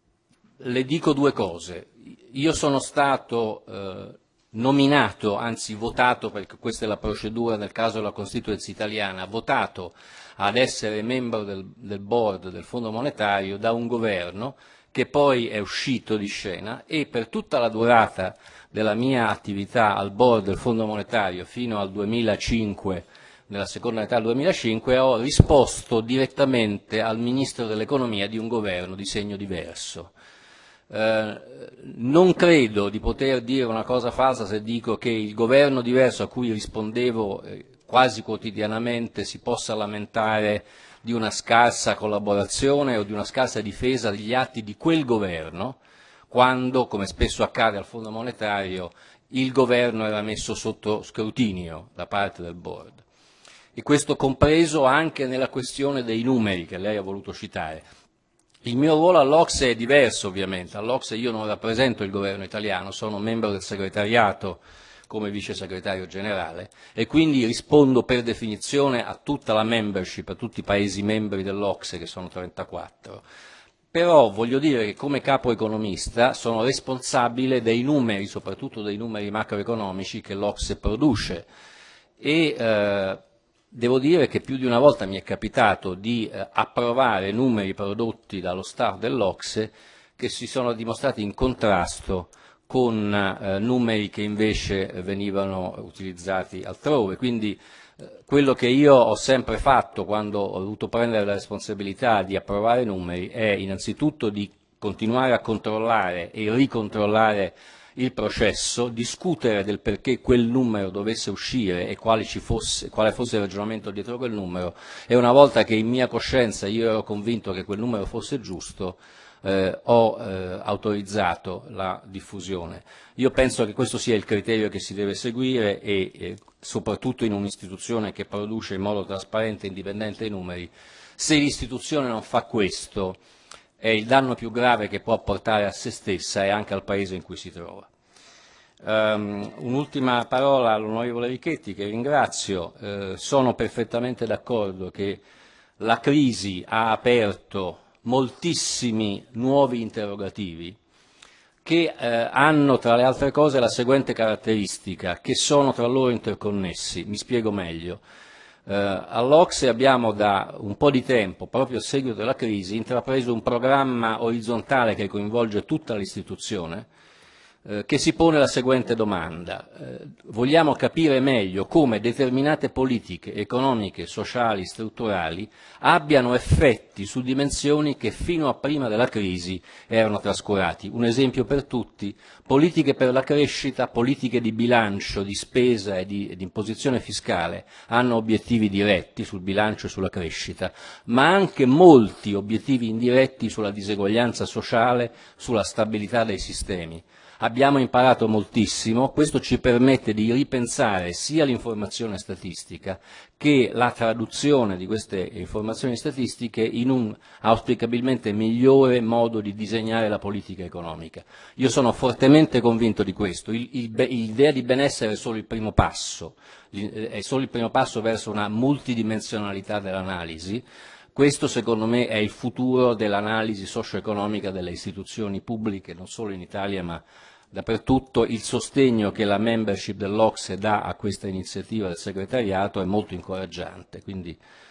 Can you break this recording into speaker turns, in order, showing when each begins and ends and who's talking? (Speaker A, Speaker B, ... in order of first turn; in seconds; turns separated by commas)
Speaker A: 0.6-30.1, Speaker A: 30.9-45.8, Speaker A: 46.3-53.0, Speaker A: 53.7-57.8, Speaker A: 58.6-73.2, Speaker A: 73.9-81.5, Speaker A: 82.2-83.2, Speaker A: 83.7-97.6, Speaker A: 98.2-133.2, Speaker A: 133.8-137.9, Speaker A: 138.8-145.2, Speaker A: 145.8-150.8, Speaker A: 151.6-158.0, Speaker A: 158.7-166.9, Speaker A: 167.6-234.4